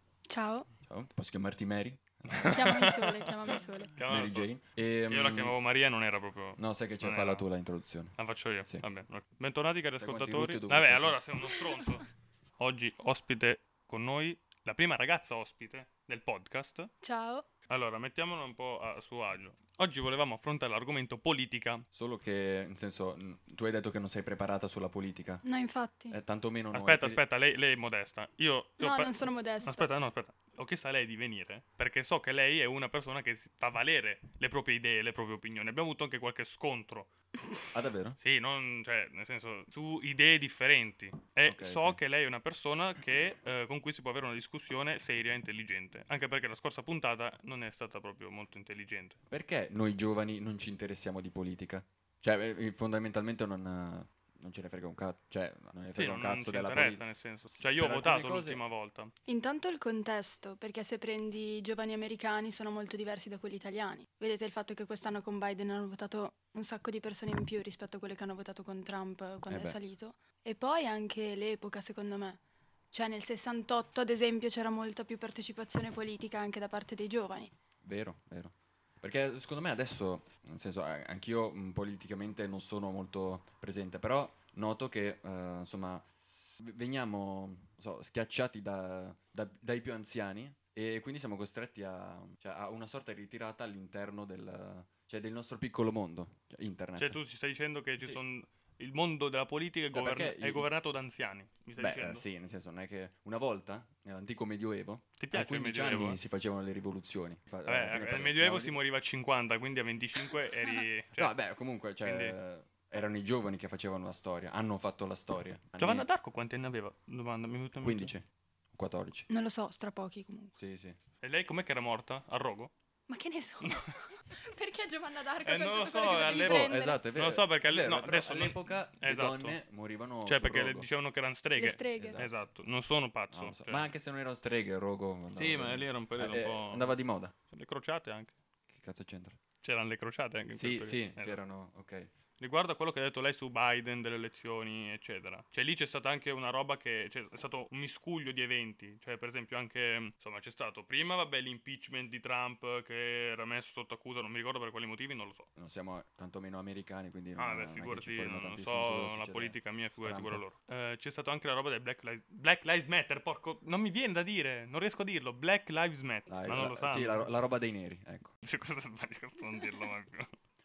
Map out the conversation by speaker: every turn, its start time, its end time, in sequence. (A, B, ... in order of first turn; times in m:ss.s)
0:00.3-0:00.7 A
0:00.8-0:02.9 B
0:02.3-0:04.5 C
0:02.5-0:03.9 A
0:04.0-0:05.6 B
0:05.1-0:07.5 C
0:06.6-0:08.8 B
0:08.2-0:12.1 C
0:10.0-0:11.2 B
0:12.6-0:16.9 C
0:17.0-0:17.4 A
0:17.7-0:21.8 C
0:21.9-0:25.4 B
0:25.4-0:26.2 A
0:26.1-0:27.2 B
0:26.7-0:37.1 C
0:28.8-0:29.9 A
0:37.7-0:38.2 B
0:38.2-0:49.2 C
0:41.4-0:42.0 B
0:49.3-0:58.6 B
0:55.9-0:59.1 C
0:59.3-1:12.4 A
1:09.5-1:09.8 B
1:12.9-1:17.5 A
1:17.8-1:26.0 B
1:26.6-1:37.2 B
1:37.0-1:42.2 C
1:39.9-1:40.7 B
1:41.8-1:48.8 B
1:45.2-1:46.2 C
1:47.6-1:51.3 C
1:51.2-1:56.0 B
1:52.0-1:52.4 C
1:55.8-1:58.1 C
1:57.8-1:59.3 B
1:59.3-2:00.6 A
2:00.6-2:01.0 B
2:01.2-2:02.7 C
2:03.1-2:07.0 A
2:05.4-2:09.6 C
2:06.4-2:10.9 B
2:10.2-2:13.9 C
2:11.6-2:12.2 A
2:12.0-2:12.3 B
2:13.3-2:17.3 B
2:15.4-2:16.9 C
2:17.5-2:18.3 C
2:18.7-2:19.4 B
2:19.6-2:21.4 C
2:20.5-2:22.1 B
2:22.4-2:35.5 C
2:35.6-2:40.4 B
2:37.4-2:47.3 C
2:46.3-2:48.3 B
2:48.4-2:50.3 C